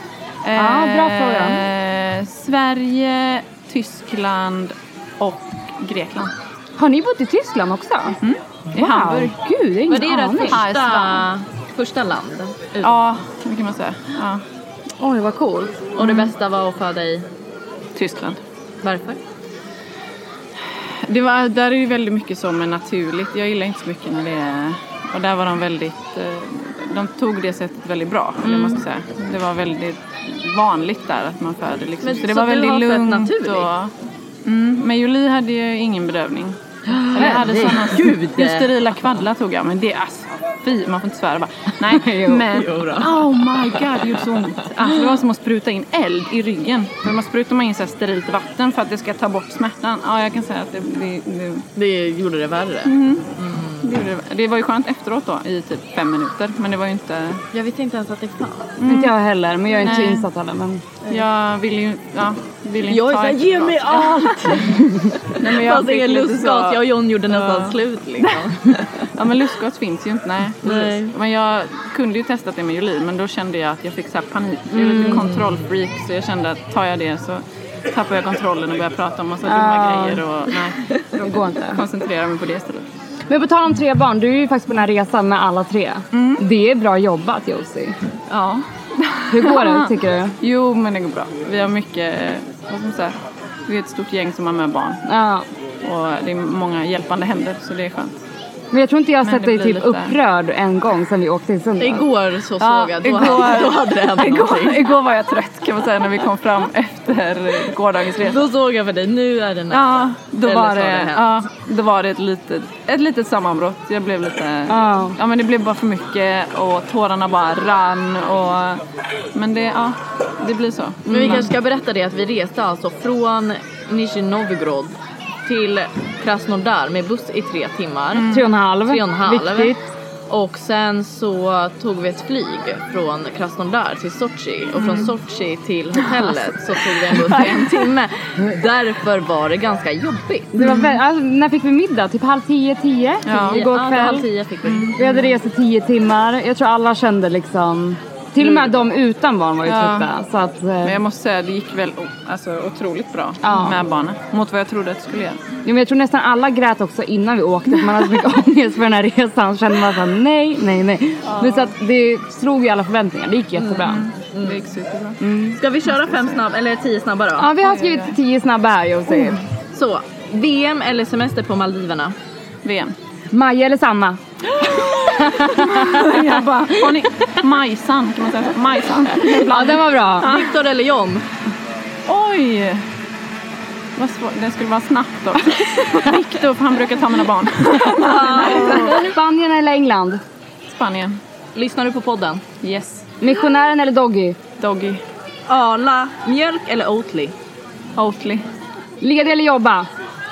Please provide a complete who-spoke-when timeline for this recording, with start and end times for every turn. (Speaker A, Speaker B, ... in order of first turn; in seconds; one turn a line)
Speaker A: 0.4-6.3
Speaker B: 0.6-1.6
Speaker B: 6.8-8.2
Speaker A: 8.2-9.3
Speaker B: 8.8-10.6
Speaker C: 9.9-13.0
Speaker A: 10.3-11.3
Speaker A: 12.8-14.4
Speaker B: 15.0-15.8
Speaker C: 16.0-17.3
Speaker A: 16.0-16.3
Speaker A: 18.0-18.4
Speaker C: 18.8-19.2
Speaker A: 21.0-33.9
Speaker B: 28.4-28.8
Speaker C: 32.0-33.7
Speaker A: 34.5-36.6
Speaker B: 36.9-37.7
Speaker A: 37.1-51.7
Speaker C: 37.2-38.7
Speaker B: 41.9-42.5
Speaker C: 42.5-43.1
Speaker C: 51.8-53.9
Speaker A: 52.9-57.4
Speaker C: 57.5-58.8
Speaker A: 58.8-59.1
Speaker B: 58.8-60.8
Speaker A: 59.8-60.3
Speaker A: 61.1-64.6
Speaker C: 62.9-69.0
Speaker A: 65.4-68.4
Speaker A: 69.2-80.9
Speaker C: 70.6-71.1
Speaker B: 74.7-75.3
Speaker C: 75.0-75.7
Speaker B: 79.5-80.2
Speaker B: 81.1-81.8
Speaker A: 81.6-82.9
Speaker B: 83.3-88.0
Speaker A: 86.1-86.4
Speaker A: 88.3-95.0
Speaker B: 89.3-90.3
Speaker B: 95.1-95.5
Speaker A: 95.8-98.2
Speaker B: 98.7-102.0
Speaker A: 99.2-100.2
Speaker C: 101.8-104.8
Speaker A: 102.6-108.4
Speaker C: 108.2-111.3
Speaker A: 109.7-118.8
Speaker B: 114.7-115.2
Speaker A: 119.3-121.5
Speaker C: 121.1-124.9
Speaker C: 125.5-128.3
Speaker A: 128.1-128.5
Speaker B: 128.3-129.9
Speaker C: 128.9-129.8
Speaker C: 130.3-140.6
Speaker A: 134.8-135.1
Speaker B: 140.5-144.3
Speaker A: 140.6-140.9
Speaker A: 143.3-143.6
Speaker C: 143.5-145.2
Speaker B: 145.0-151.0
Speaker A: 149.6-150.1
Speaker A: 150.8-155.5
Speaker B: 153.4-153.8
Speaker B: 155.7-164.1
Speaker A: 161.3-161.7
Speaker C: 163.6-164.6
Speaker A: 163.8-165.2
Speaker B: 165.2-165.6
Speaker C: 165.6-167.5
Speaker A: 165.8-166.4
Speaker B: 167.4-169.4
Speaker A: 167.6-168.2
Speaker C: 169.7-172.2
Speaker A: 172.7-172.9
Speaker B: 173.3-176.2
Speaker A: 175.3-180.6
Speaker B: 179.3-180.3
Speaker C: 180.2-181.2
Speaker A: 182.1-182.8
Speaker A: 184.0-189.1
Speaker B: 187.9-190.2
Speaker C: 188.0-188.9
Speaker A: 190.7-191.2
Speaker C: 191.6-192.4
Speaker A: 192.6-193.1
Speaker B: 193.2-194.4
Speaker A: 194.6-195.0
Speaker C: 195.5-197.3
Speaker A: 198.0-198.4
Speaker B: 199.0-199.9